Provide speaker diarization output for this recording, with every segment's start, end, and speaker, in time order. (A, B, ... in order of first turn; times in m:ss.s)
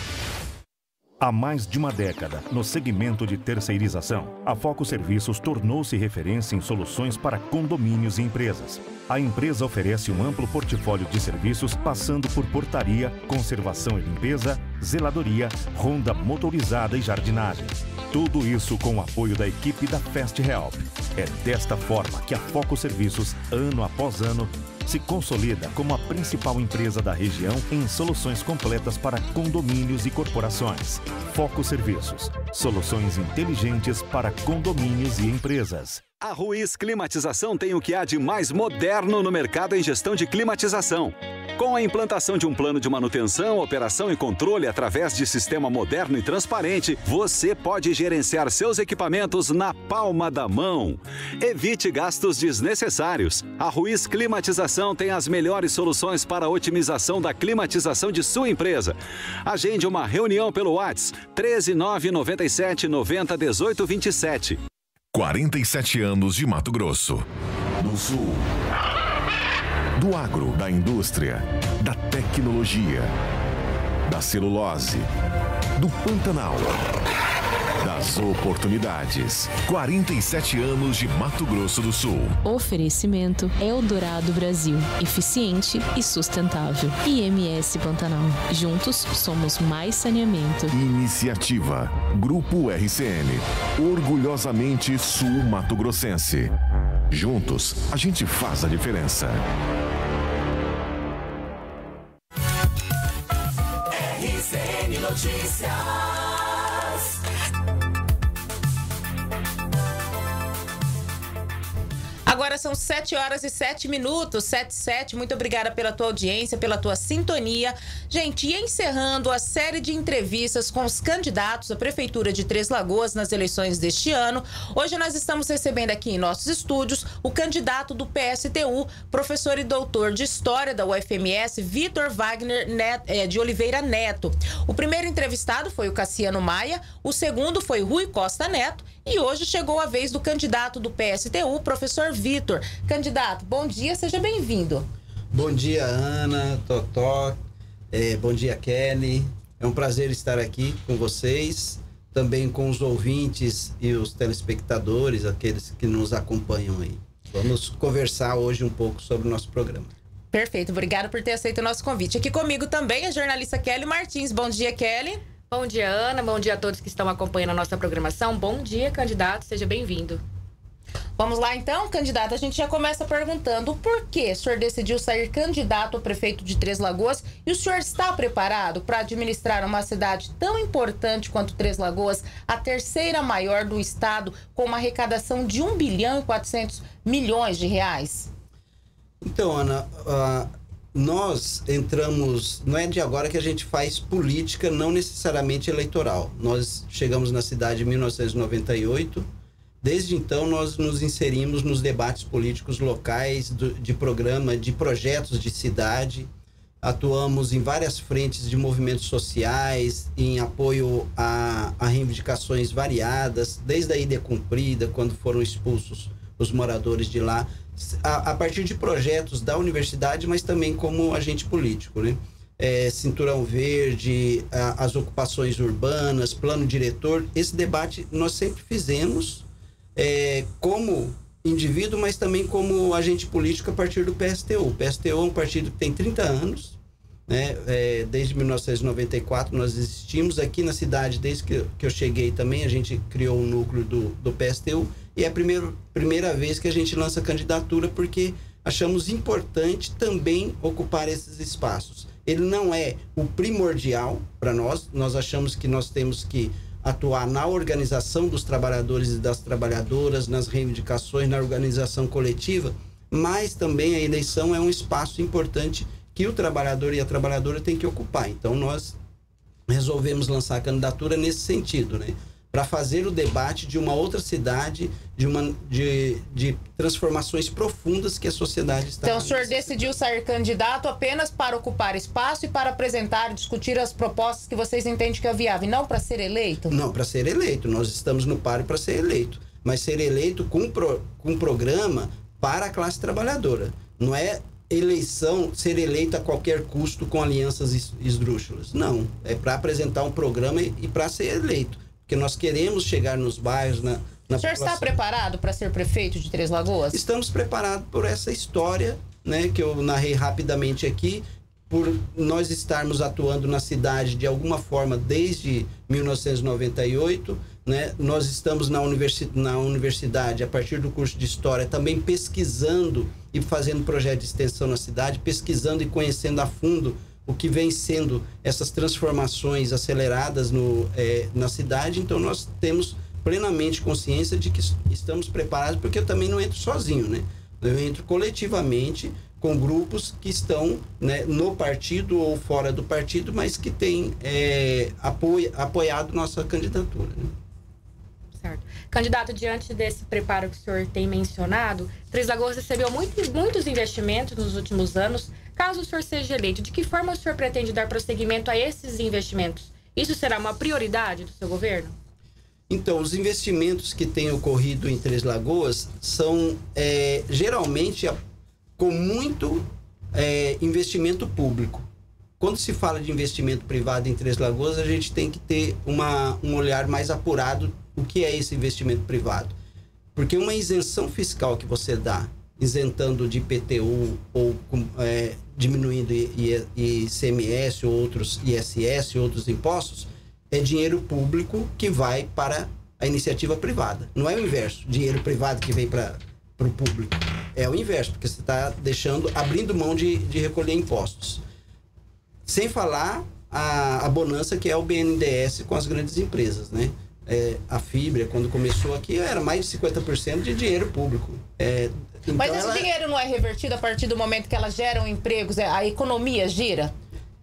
0:01.2-0:36.0 A
0:36.2-1:04.6 B
1:05.1-1:07.2 C
1:07.8-1:08.4 C
1:10.0-1:13.1 C
1:14.1-1:15.1 C
1:15.8-1:16.8 C
1:17.8-1:22.4 C
1:22.4-1:30.7 D
1:30.7-1:36.5 C
1:37.1-1:39.4 C
1:52.2-2:24.8 E
2:25.3-2:27.4 F
2:27.9-2:39.9 F
2:40.3-2:45.2 E
2:45.5-2:50.2 G
2:51.2-3:08.3 E
3:09.2-3:19.2 F
3:19.8-3:26.3 F
3:26.8-3:56.8 F
3:57.3-4:29.0 F
4:29.7-4:40.0 F
4:39.0-4:46.7 E
4:46.7-5:04.9 F
5:04.4-5:07.0 E
5:06.9-5:47.3 F
5:48.4-6:01.9 G
6:02.7-6:08.2 F
6:08.8-6:11.8 F
6:12.4-6:19.6 F
6:20.1-6:41.4 F
6:42.4-6:52.9 F
6:52.4-6:56.9 E